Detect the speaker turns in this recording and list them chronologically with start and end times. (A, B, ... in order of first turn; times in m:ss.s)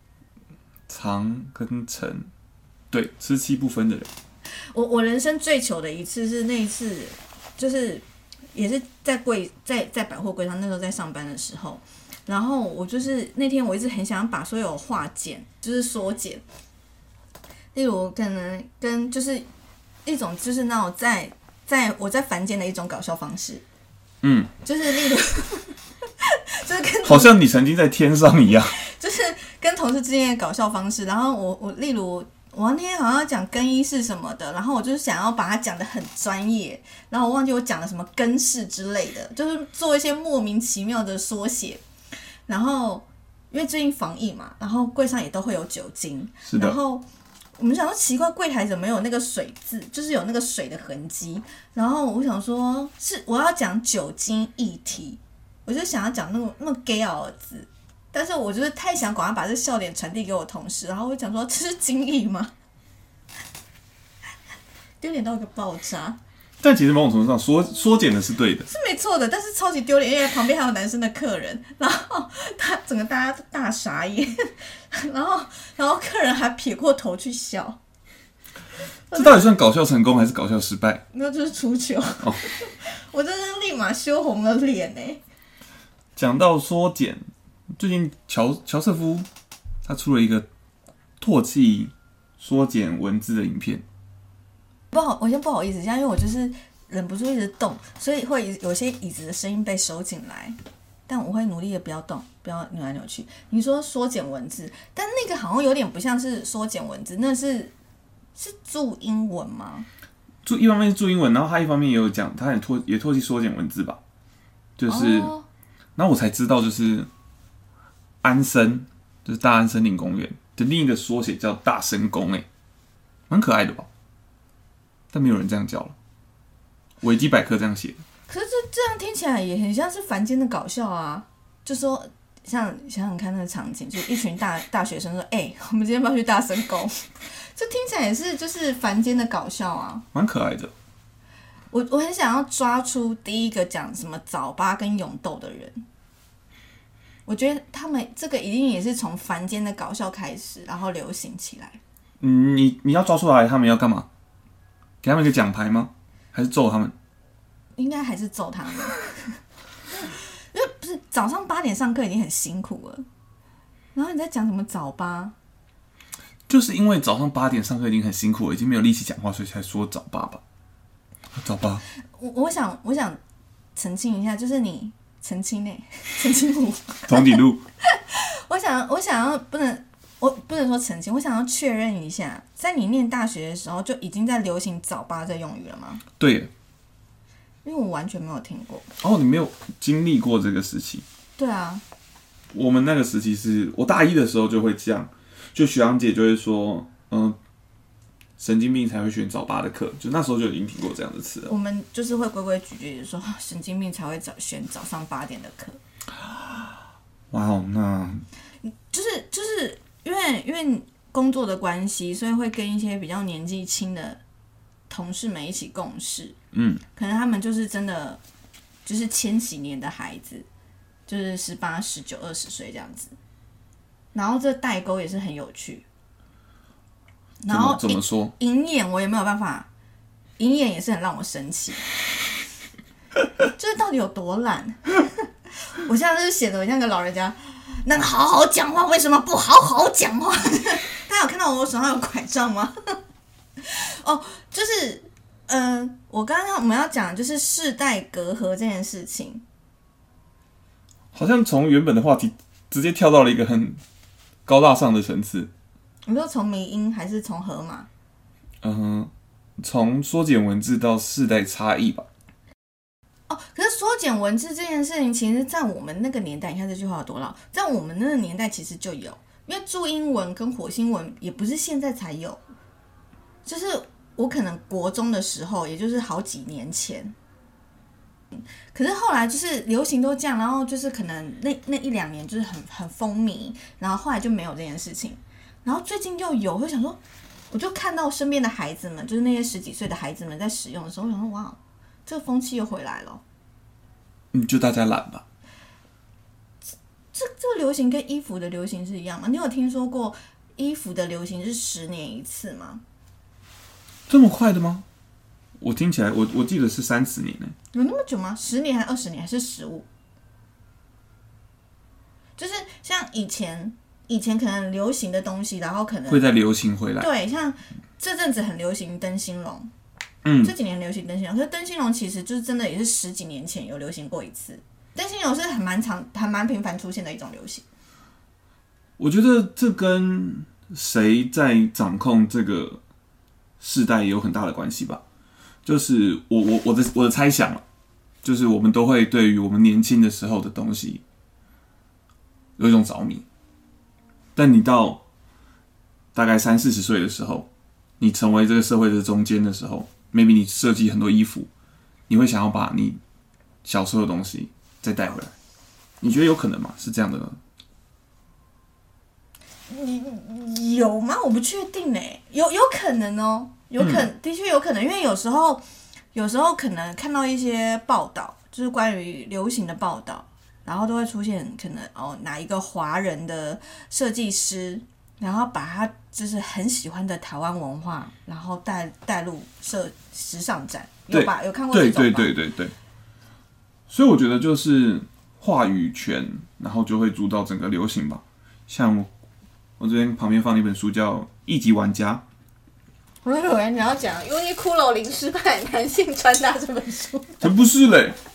0:00.9-0:02.3 A
0:02.9-0:04.1 A
0:04.7-0:16.4 B
0:17.7-0:19.5 B
0:20.1-0:23.6 B
0:24.2-0:24.5 A
0:24.6-0:27.3 B
0:27.0-0:28.8 A
0:28.7-0:41.8 B
0:42.5-0:47.0 B
0:46.4-0:46.8 A
0:47.6-1:02.5 B
1:05.0-1:06.2 B
1:06.6-1:08.7 A
1:08.7-1:17.8 B
1:19.1-1:19.5 B
1:19.1-1:21.0 A
1:21.1-1:25.2 B
1:26.2-1:27.2 A
1:27.8-1:29.3 A
1:29.8-1:30.5 A
1:31.2-1:33.8 A
1:34.9-1:40.6 B
1:41.1-1:47.7 B
1:48.4-1:49.9 B
1:50.4-1:54.0 A
1:54.8-1:55.3 A
1:54.9-1:55.5 B
1:56.0-1:57.1 A
1:58.2-2:02.5 A
2:03.3-2:03.9 A
2:05.1-2:06.0 A
2:07.0-2:08.0 A
2:08.3-2:20.1 B
2:20.1-2:20.7 A
2:21.7-2:25.8 B
2:27.3-2:31.8 B
2:32.2-2:34.1 A
2:35.0-2:36.9 A
2:37.8-2:39.4 B
2:40.0-2:43.0 B
2:44.0-2:45.4 B
2:46.5-2:50.4 A
2:51.4-2:51.8 A
2:52.2-2:53.2 B
2:53.8-3:06.0 B
2:57.1-2:57.6 A
3:06.2-3:06.5 A
3:07.6-3:08.9 B
3:09.0-3:11.0 A
3:11.4-3:11.8 B
3:12.5-3:17.4 A
3:18.4-3:21.5 A
3:21.5-3:25.8 B
3:26.2-3:26.8 A
3:27.3-3:28.2 A
3:28.6-3:34.2 B
3:34.9-3:36.4 B
3:36.5-3:36.8 A
3:37.0-3:38.2 B
3:38.9-3:40.5 B
3:41.1-3:43.2 B
3:44.1-3:45.8 B
3:47.4-3:49.7 B
3:47.5-3:48.3 A
3:50.4-3:51.8 B
3:53.6-3:55.3 B
3:55.8-4:02.7 B
4:03.6-4:09.4 B
4:11.1-4:13.8 A
4:14.5-4:15.5 A
4:16.1-4:17.9 B
4:18.6-4:22.1 A
4:23.3-4:32.4 B
4:33.5-4:37.1 B
4:38.3-4:47.0 B
4:47.5-4:53.2 B
4:54.3-4:55.2 A
4:57.1-5:02.8 B
5:04.1-5:04.8 A
5:05.6-5:07.5 A
5:07.7-5:09.9 B
5:12.4-5:16.3 B
5:16.1-5:17.1 A
5:17.0-5:19.7 B
5:20.2-5:20.5 A
5:20.4-5:27.6 B
5:29.0-5:32.8 A
5:33.6-5:35.0 A
5:35.6-5:37.6 A
5:38.2-5:41.0 A
5:42.6-5:43.2 A
5:44.4-5:45.0 A
5:46.1-5:47.5 A
5:48.0-5:51.5 A
5:52.1-5:53.0 A
5:53.6-5:55.3 A
5:56.0-5:57.4 A
5:59.7-6:05.6 B
6:03.8-6:04.1 A
6:06.1-6:22.3 B
6:21.1-6:22.7 A
6:23.9-6:29.1 A
6:29.8-6:32.2 A
6:33.2-6:37.5 B
6:37.4-6:38.2 A